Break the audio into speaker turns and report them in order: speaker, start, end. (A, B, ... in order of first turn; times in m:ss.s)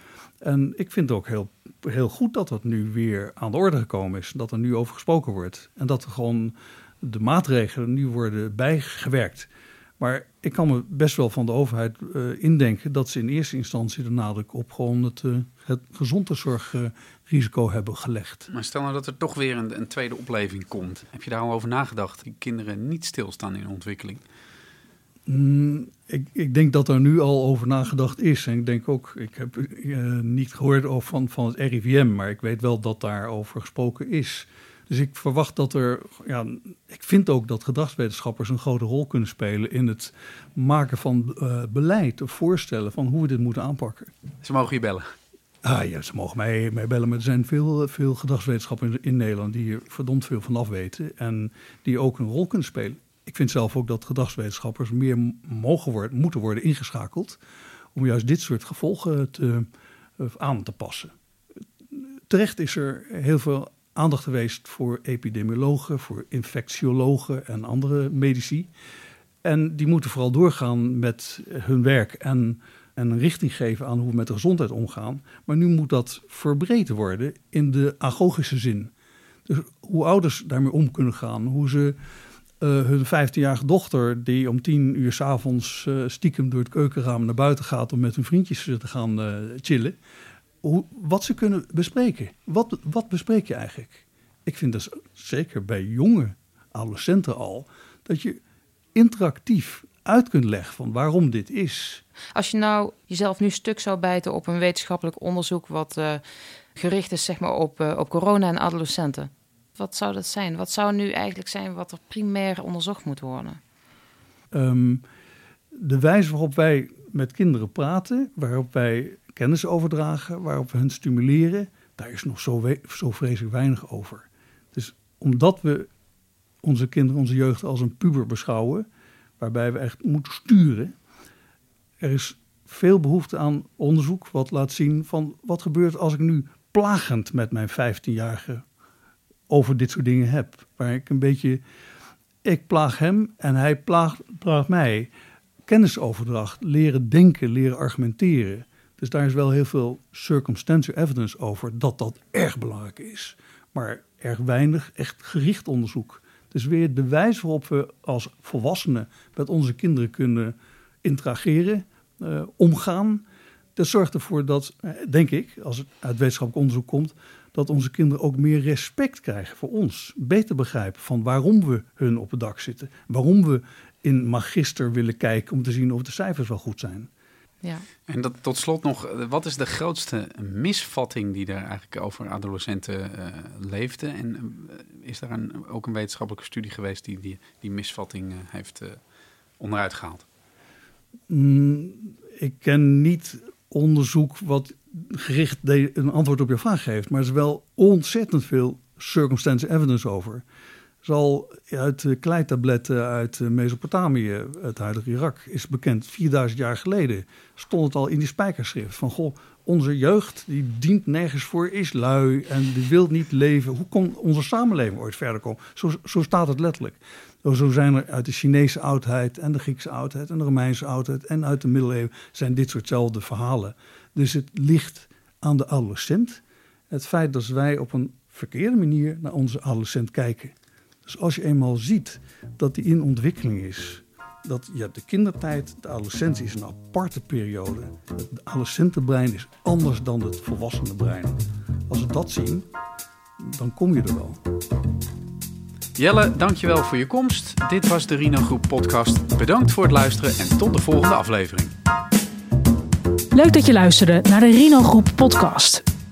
0:00.4-0:18.5 A
0:18.5-0:24.2 B
0:25.3-0:44.1 A
0:44.4-0:45.1 B
0:45.6-0:57.4 A
0:57.9-1:01.1 A
1:01.9-1:08.7 A
1:09.4-1:18.9 A
1:19.5-1:22.0 A
1:22.6-1:30.0 A
1:30.6-1:38.4 A
1:39.0-1:42.0 A
1:42.4-1:46.2 C
1:46.8-1:53.6 C
1:54.5-1:55.0 A
1:55.7-2:05.9 A
2:06.6-2:08.9 A
2:09.4-2:10.9 A
2:12.0-2:18.6 A
2:19.5-2:21.6 A
2:22.4-2:25.1 A
2:25.6-2:43.2 A
2:43.8-2:57.1 A
2:58.1-3:09.0 B
3:09.6-3:10.2 B
3:11.3-3:20.4 A
3:21.0-3:50.5 A
3:51.0-4:01.4 A
4:01.9-4:02.7 A
4:03.4-4:04.4 A
4:06.0-4:11.7 B
4:13.3-4:15.8 D